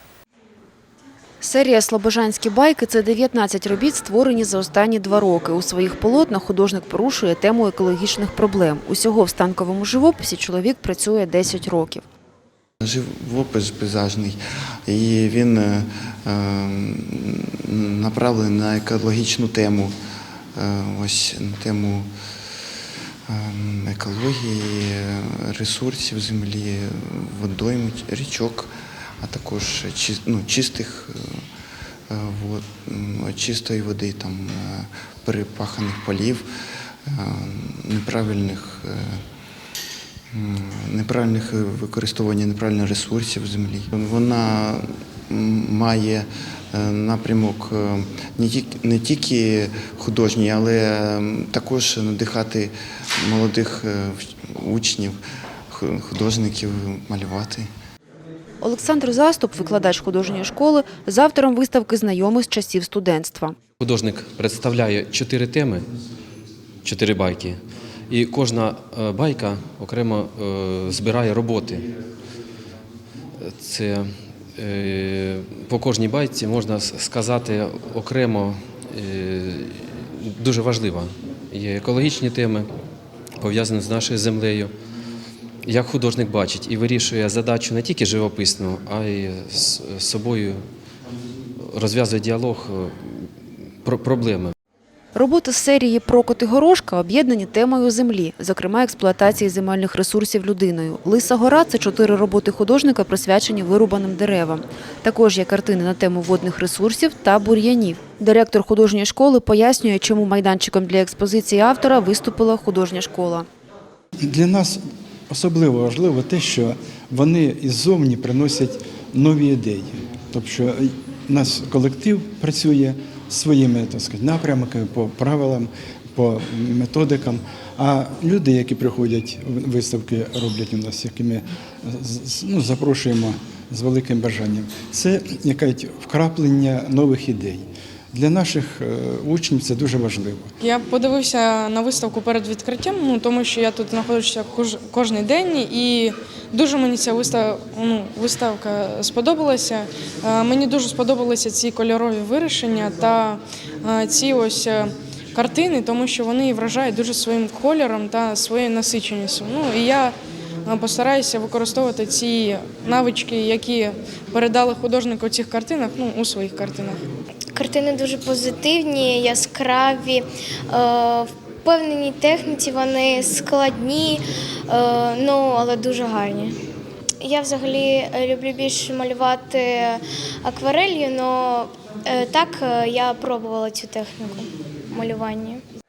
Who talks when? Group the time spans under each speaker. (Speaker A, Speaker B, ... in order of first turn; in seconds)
Speaker A: 1.4-12.0, 58.6-63.5, 95.1-113.5
Speaker B: 12.8-19.9, 20.6-22.1, 23.3-28.7, 29.2-31.3, 32.1-36.5, 37.1-39.2, 40.3-55.2, 55.7-57.7
Speaker C: 63.8-65.9, 66.8-71.9, 73.4-82.7, 83.4-84.7, 85.6-90.6, 91.6-93.3, 93.8-94.5
Speaker D: 114.2-140.5
Speaker E: 140.6-160.1, 160.7-167.0
Speaker F: 167.5-176.6, 177.2-185.6